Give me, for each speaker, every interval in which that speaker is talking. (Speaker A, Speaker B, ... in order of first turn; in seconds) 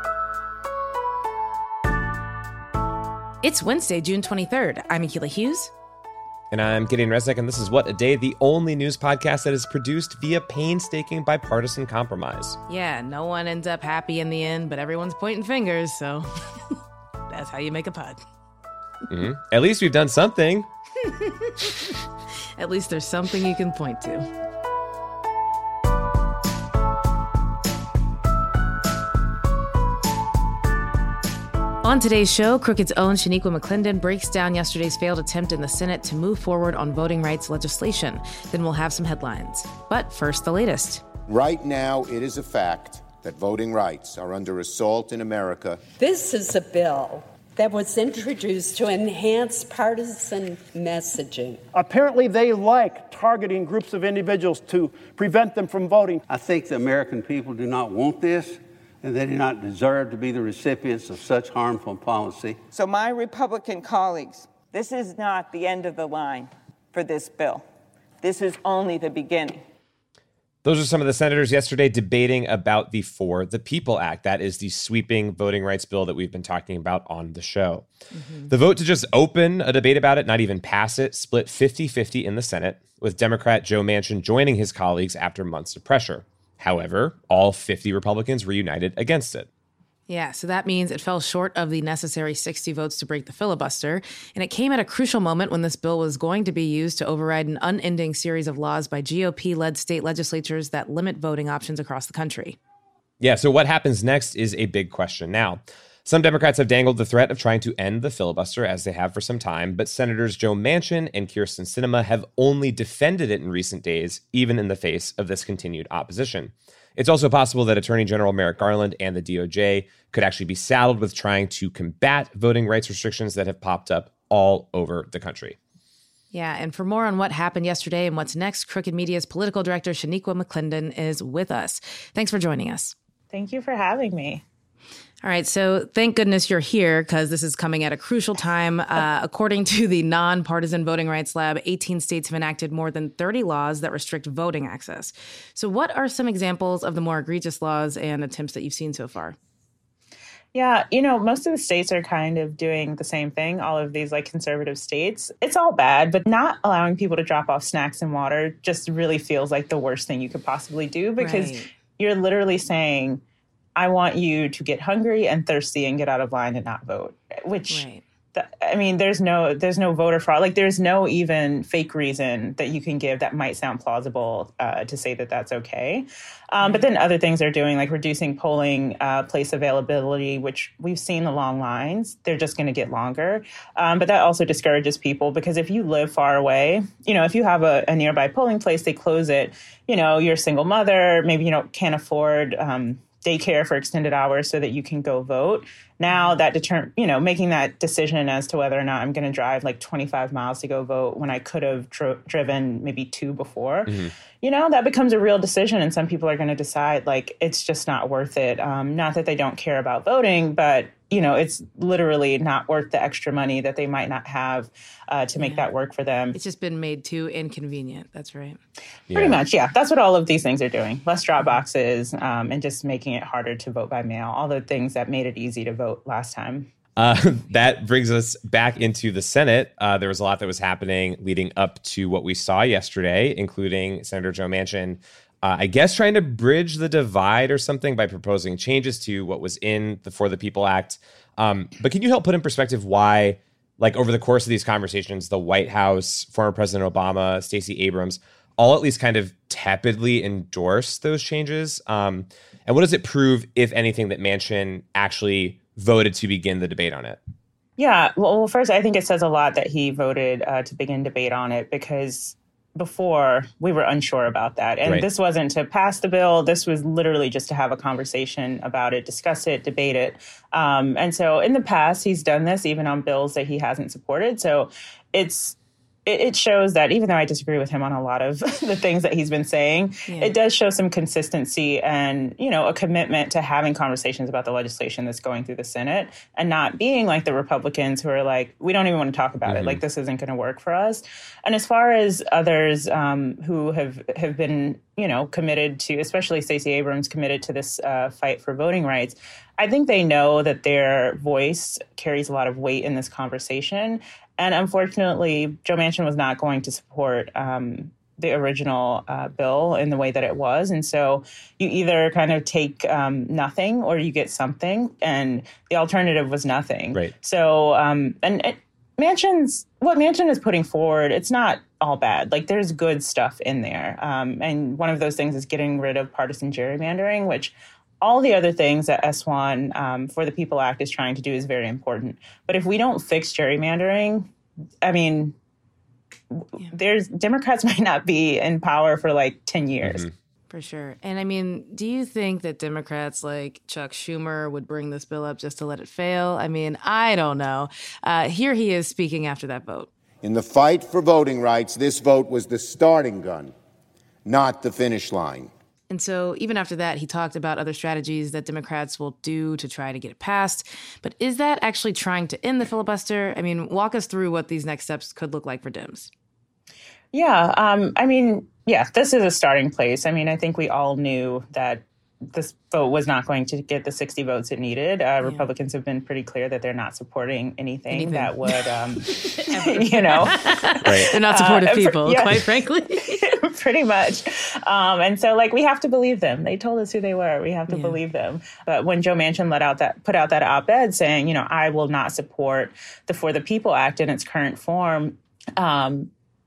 Speaker A: 3.4-5.7, 12.7-16.7, 17.3-18.2, 21.4-21.9, 22.6-24.3, 31.8-41.0, 78.1-78.5, 90.1-102.6, 126.3-132.9, 135.2-149.3, 161.2-161.7, 167.7-168.0, 176.6-176.9, 196.1-196.4, 215.4-215.7, 216.3-218.6, 340.5-349.9, 355.9-366.1, 375.2-375.5, 377.9-383.2, 387.7-388.0
Speaker B: 6.5-12.6, 19.1-20.7, 70.6-77.9, 78.5-89.5, 103.2-125.6, 203.9-204.1, 219.1-219.4, 227.0-257.2, 289.4-289.8, 339.8-340.1, 380.9-381.1
Speaker C: 41.3-45.8, 350.2-353.5, 354.2-355.5
Speaker D: 46.0-51.6
Speaker E: 51.7-56.2
Speaker F: 56.3-62.6
Speaker G: 62.7-67.7, 68.2-69.6
Speaker H: 133.3-134.4, 150.5-163.2, 163.8-216.3, 219.1-226.7, 257.8-334.3, 334.8-335.4, 336.4-340.0, 367.1-382.5, 383.1-396.1